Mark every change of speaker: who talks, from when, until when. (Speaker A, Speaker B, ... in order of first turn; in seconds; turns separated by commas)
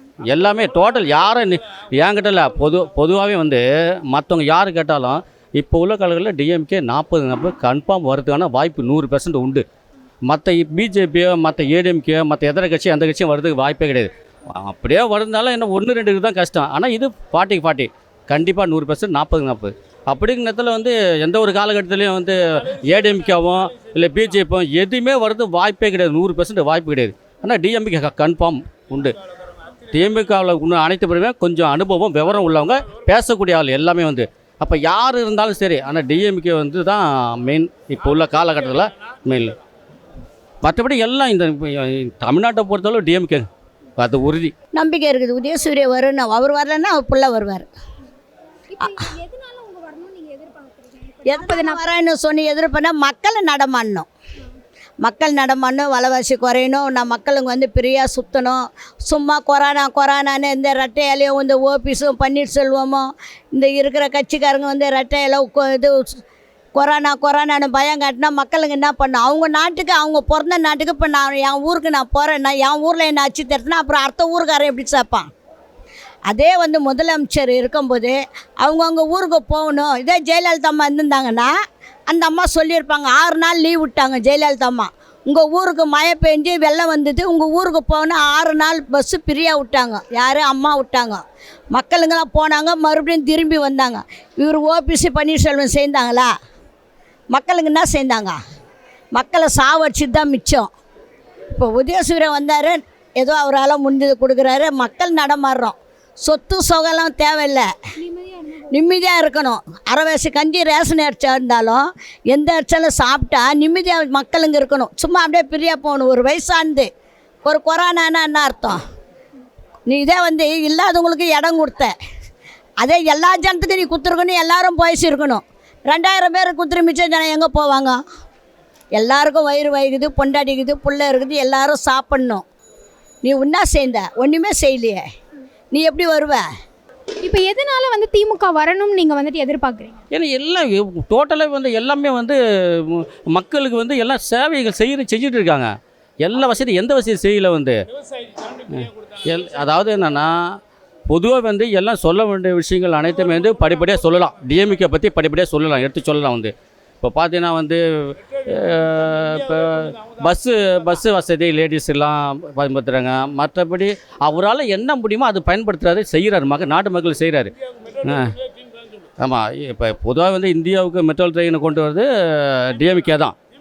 Speaker A: 0.2-9.6, Speaker A: 10.3-29.1, Speaker A: 29.9-39.5, Speaker A: 40.6-43.5, Speaker A: 44.0-44.5, Speaker B: 44.7-47.6, Speaker C: 48.7-51.8, Speaker B: 51.2-54.1, Speaker B: 55.0-65.9, Speaker B: 66.8-75.3, Speaker B: 76.3-81.5, Speaker B: 82.1-96.3, Speaker B: 97.3-98.4, Speaker B: 99.1-100.7, Speaker B: 101.5-107.7, Speaker C: 108.1-108.5, Speaker B: 108.7-116.9, Speaker B: 117.4-118.8, Speaker B: 119.9-121.9, Speaker B: 122.8-128.0, Speaker B: 129.0-132.4, Speaker B: 133.2-135.0, Speaker B: 135.7-136.4, Speaker C: 137.2-140.0, Speaker A: 140.1-145.7, Speaker A: 146.2-147.8, Speaker A: 148.7-150.3, Speaker A: 151.1-157.8, Speaker A: 158.4-168.3, Speaker A: 169.2-173.3